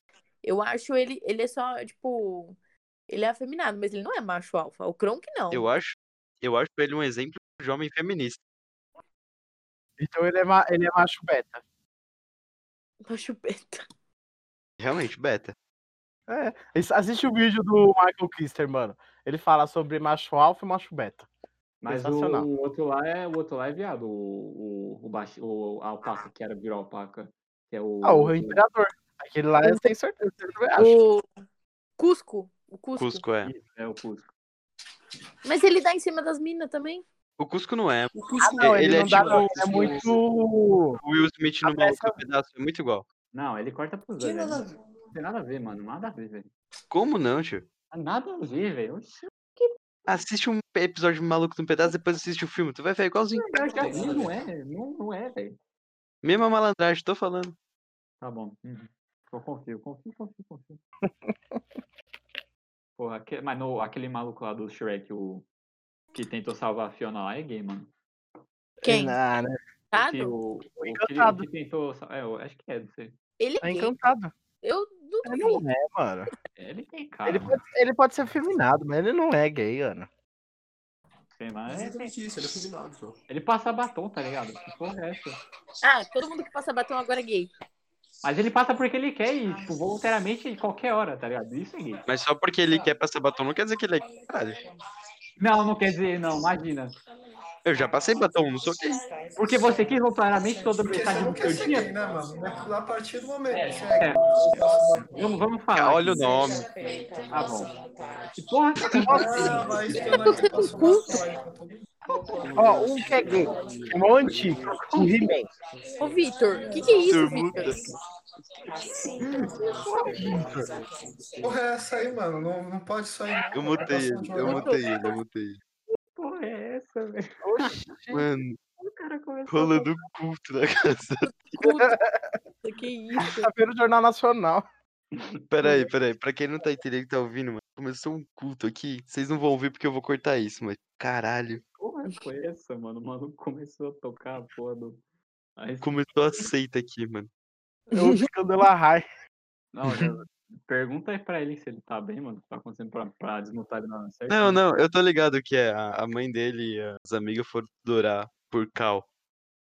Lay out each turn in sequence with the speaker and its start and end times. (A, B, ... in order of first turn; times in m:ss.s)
0:00.4-0:02.6 A
0:03.1-0:05.6 A
0:05.5-0:08.4 B
0:10.0-0:11.6 C
0:13.0-0:13.8 A
0:14.8-0:15.5 B
0:16.3-0:21.3 C
0:21.8-0:28.6 D
0:21.9-0:22.4 C
0:28.0-0:31.0 C
0:29.6-0:29.9 A
0:30.7-0:31.3 A
0:32.0-0:33.2 A
0:33.0-0:33.5 B
0:33.4-0:34.3 D
0:35.4-0:37.0 A
0:37.4-0:40.2 B
0:38.1-0:40.2 E
0:38.4-0:41.0 C
0:41.0-0:43.0 B
0:41.6-0:42.2 C
0:43.3-0:46.5 D
0:44.2-0:44.8 E
0:46.9-0:47.6 B
0:47.9-0:49.8 D
0:50.1-0:53.7 B
0:53.3-0:55.6 D
0:53.6-0:54.4 E
0:56.2-0:57.5 B
0:58.2-1:00.8 D
1:03.0-1:05.4 D
1:06.1-1:07.9 D
1:08.8-1:09.2 A
1:08.8-1:09.6 C
1:09.9-1:10.3 A
1:10.0-1:13.1 D
1:10.8-1:11.4 C
1:13.4-1:13.9 A
1:13.6-1:14.3 C
1:14.6-1:15.6 A
1:15.2-1:16.3 C
1:16.6-1:17.6 D
1:17.2-1:20.1 C
1:21.4-1:22.1 D
1:21.7-1:23.2 E
1:23.3-1:25.4 D
1:25.8-1:27.5 A
1:28.2-1:32.0 D
1:32.1-1:34.6 B
1:35.4-1:36.9 D
1:37.6-1:39.0 B
1:39.4-1:41.9 D
1:40.8-1:45.2 F
1:43.5-1:44.4 D
1:45.1-1:46.3 D
1:45.7-1:46.7 B
1:47.3-1:47.7 D
1:48.3-1:49.7 D
1:48.9-1:51.9 F
1:49.0-1:49.8 C
1:50.1-1:51.1 A
1:52.4-1:52.8 D
1:52.5-1:55.5 C
1:53.5-1:53.9 D
1:54.6-1:55.2 D
1:56.0-1:57.8 A
1:56.9-1:57.8 B
1:59.2-2:00.7 D
2:01.4-2:04.8 F
2:03.5-2:05.6 B
2:04.4-2:05.2 A
2:06.1-2:07.8 D
2:07.4-2:08.2 C
2:08.1-2:08.6 B
2:08.8-2:09.9 D
2:09.5-2:11.6 B
2:11.5-2:12.0 A
2:11.8-2:12.3 C
2:12.6-2:13.5 A
2:13.2-2:14.6 C
2:15.1-2:15.4 D
2:15.5-2:21.6 B
2:21.8-2:25.0 D
2:25.6-2:26.0 D
2:25.8-2:27.3 B
2:27.9-2:29.0 C
2:29.7-2:34.6 D
2:34.3-2:39.0 B